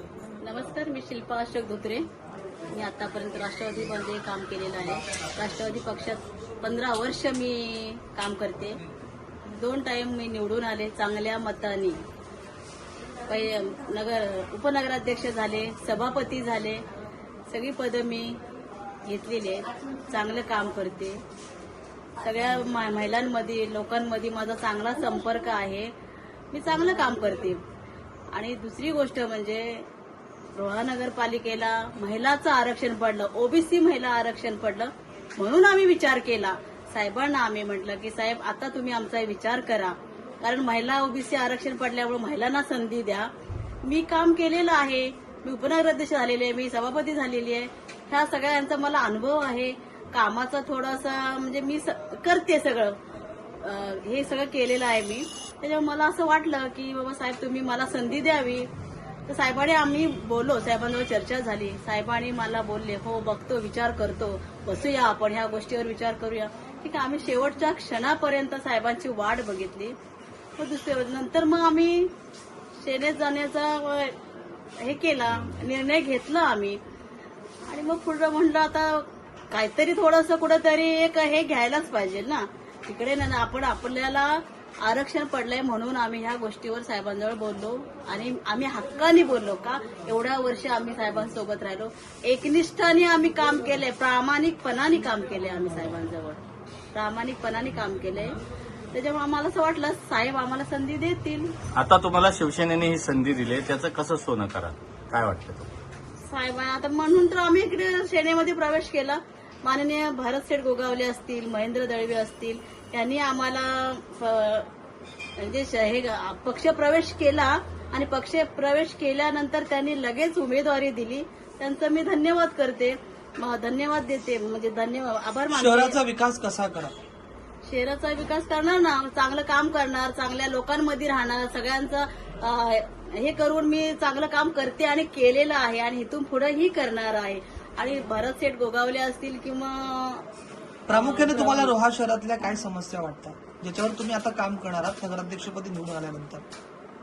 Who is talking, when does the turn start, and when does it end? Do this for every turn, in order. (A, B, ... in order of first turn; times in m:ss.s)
0:00.4-0:02.0 A
0:02.7-0:08.8 A
0:09.5-0:12.0 A
0:13.3-0:16.8 A
0:17.5-0:18.3 A
0:19.0-0:21.2 A
0:22.2-0:25.9 A
0:26.5-0:27.6 A
0:28.3-0:29.8 A
0:30.5-0:43.3 A
0:43.8-0:53.0 A
0:53.6-0:58.6 A
0:59.3-1:09.9 A
1:10.6-1:12.1 A
1:12.8-1:14.2 A
1:14.8-1:16.8 A
1:17.7-1:36.4 A
1:36.9-1:38.4 A
1:38.9-1:41.5 A
1:41.7-1:45.7 B
1:46.2-1:54.7 A
1:55.4-2:06.0 A
2:05.5-2:06.9 C
2:07.6-2:20.2 A
2:20.9-2:26.4 C
2:20.9-2:21.7 A